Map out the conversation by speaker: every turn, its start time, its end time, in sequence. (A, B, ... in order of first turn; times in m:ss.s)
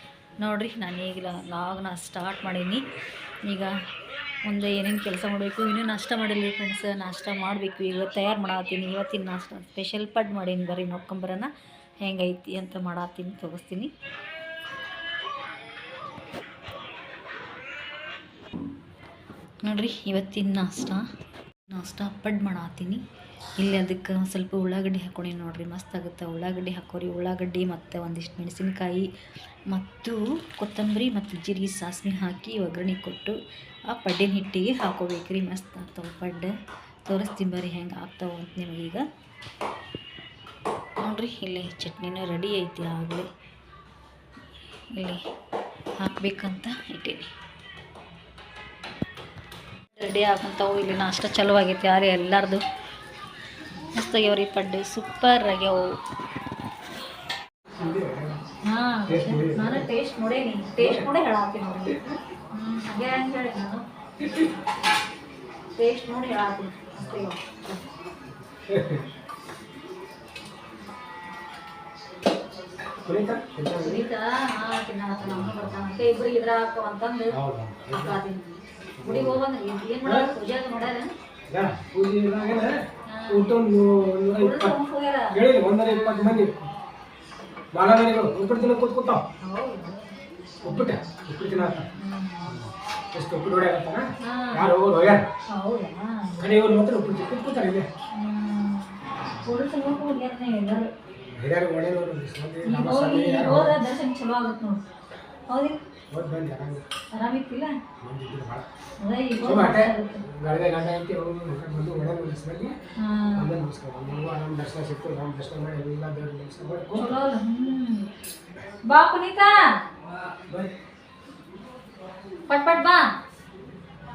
0:00.4-0:02.8 A
0:03.4-0:03.7 A
0:04.4-0:11.5 A
0:12.0-0:13.9 A
0:19.6-0:21.0 A
0:21.7-0:23.0 A
0:23.6-0:29.1 A
0:29.7-0:33.4 A
0:33.9-0:36.5 A
0:37.0-0:39.0 A
0:41.0-0:43.3 A
0:44.9-0:45.2 A
0:46.0-0:47.3 A
0:49.9-0:52.6 A
0:53.9-0:55.9 A
0:57.7-0:58.4 B
0:58.6-1:02.0 A
0:59.0-0:59.9 B
1:00.8-1:01.1 B
1:02.5-1:03.8 A
1:05.8-1:07.9 A
1:07.0-1:07.3 B
1:08.5-1:09.1 B
1:13.0-1:14.0 B
1:13.8-1:17.4 A
1:15.2-1:15.8 B
1:17.3-1:18.2 B
1:17.9-1:21.1 A
1:19.0-1:19.4 B
1:20.0-1:20.3 B
1:21.5-1:24.8 B
1:23.1-1:23.5 A
1:24.3-1:26.4 A
1:25.3-1:26.6 B
1:27.7-1:29.2 B
1:29.4-1:30.9 A
1:30.6-1:31.9 B
1:31.5-1:32.6 A
1:32.4-1:35.3 B
1:34.2-1:34.6 A
1:35.5-1:36.5 A
1:36.4-1:37.9 B
1:38.2-1:40.9 A
1:41.2-1:43.8 B
1:42.6-1:44.8 A
1:45.5-1:45.8 A
1:46.1-1:46.8 B
1:47.2-1:47.8 A
1:48.0-1:48.7 B
1:49.0-1:50.2 A
1:49.4-1:52.7 B
1:53.0-1:53.5 A
1:53.3-1:57.2 B
1:56.9-1:58.1 A
1:58.9-1:59.6 A
2:02.5-2:03.0 A